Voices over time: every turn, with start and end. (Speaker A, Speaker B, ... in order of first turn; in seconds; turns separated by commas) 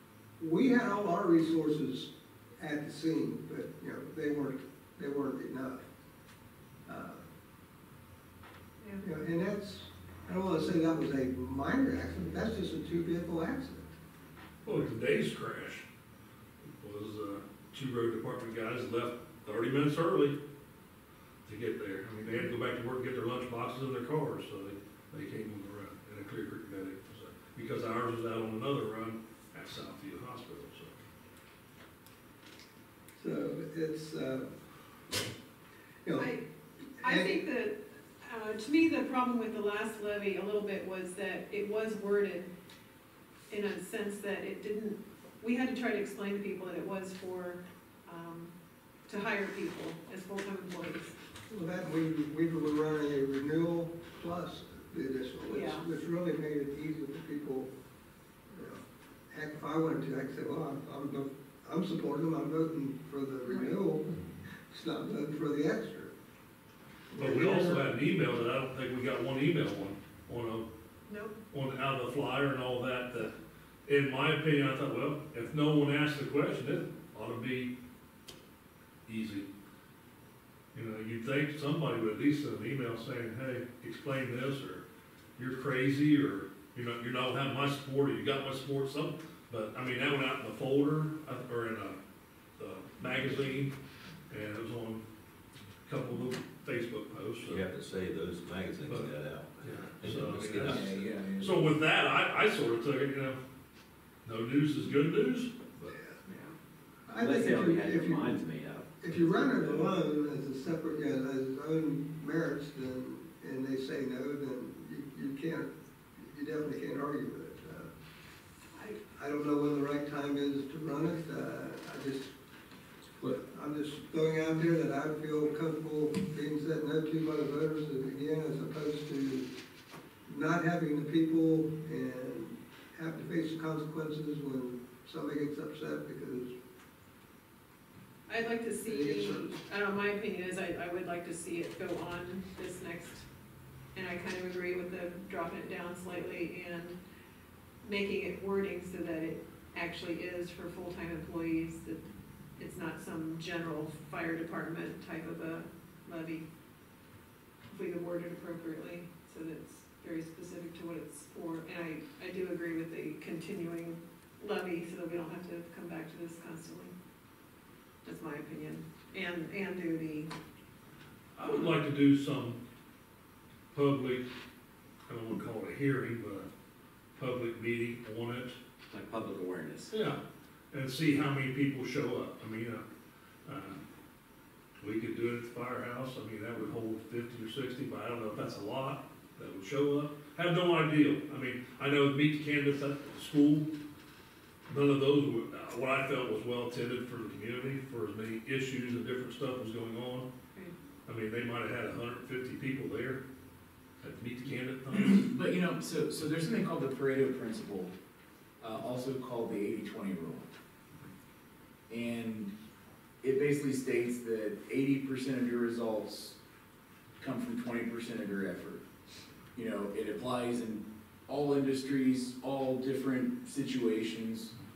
Speaker A: 0.4-5.8, Speaker A: 6.8-7.2, Speaker A: 9.0-13.9, Speaker B: 14.6-15.8, Speaker B: 16.6-20.4, Speaker B: 21.4-30.9, Speaker A: 33.2-34.5, Speaker A: 36.0-36.3, Speaker C: 36.2-36.4, Speaker C: 37.0-42.5, Speaker A: 37.0-37.4, Speaker C: 43.5-48.5, Speaker C: 49.1-51.1, Speaker A: 51.5-57.7, Speaker C: 55.5-55.8, Speaker A: 58.5-64.1, Speaker C: 63.5-63.8, Speaker A: 64.7-66.1, Speaker A: 67.1-67.9, Speaker B: 67.2-70.7, Speaker C: 71.1-71.3, Speaker B: 71.5-73.3, Speaker B: 73.9-77.7, Speaker B: 79.1-79.5, Speaker B: 80.7-84.8, Speaker B: 85.4-92.0, Speaker B: 92.6-93.7, Speaker B: 94.3-95.0, Speaker B: 95.8-97.7, Speaker D: 97.4-101.0, Speaker B: 98.8-103.4, Speaker E: 100.6-101.7, Speaker B: 104.2-105.9, Speaker F: 106.3-106.5, Speaker A: 107.1-108.4, Speaker F: 107.2-109.9, Speaker A: 109.0-117.9, Speaker A: 119.1-122.3, Speaker A: 123.3-129.5, Speaker A: 130.3-136.5, Speaker C: 138.3-143.3, Speaker A: 138.8-139.5, Speaker C: 143.9-147.0, Speaker C: 147.8-152.0, Speaker C: 152.6-156.4, Speaker C: 157.7-166.9, Speaker C: 168.0-170.3, Speaker B: 171.3-172.6, Speaker C: 171.4-171.8, Speaker B: 173.7-174.2, Speaker B: 175.1-176.5, Speaker B: 177.2-178.6, Speaker F: 178.9-179.9, Speaker B: 179.9-180.2, Speaker B: 180.7-182.8, Speaker B: 183.4-183.8, Speaker B: 184.8-193.7, Speaker B: 194.7-200.3, Speaker B: 201.1-203.2, Speaker B: 204.0-205.3, Speaker E: 204.9-207.9, Speaker E: 208.6-210.4, Speaker E: 211.9-212.5, Speaker E: 213.2-216.3, Speaker E: 217.2-218.8, Speaker E: 219.5-224.5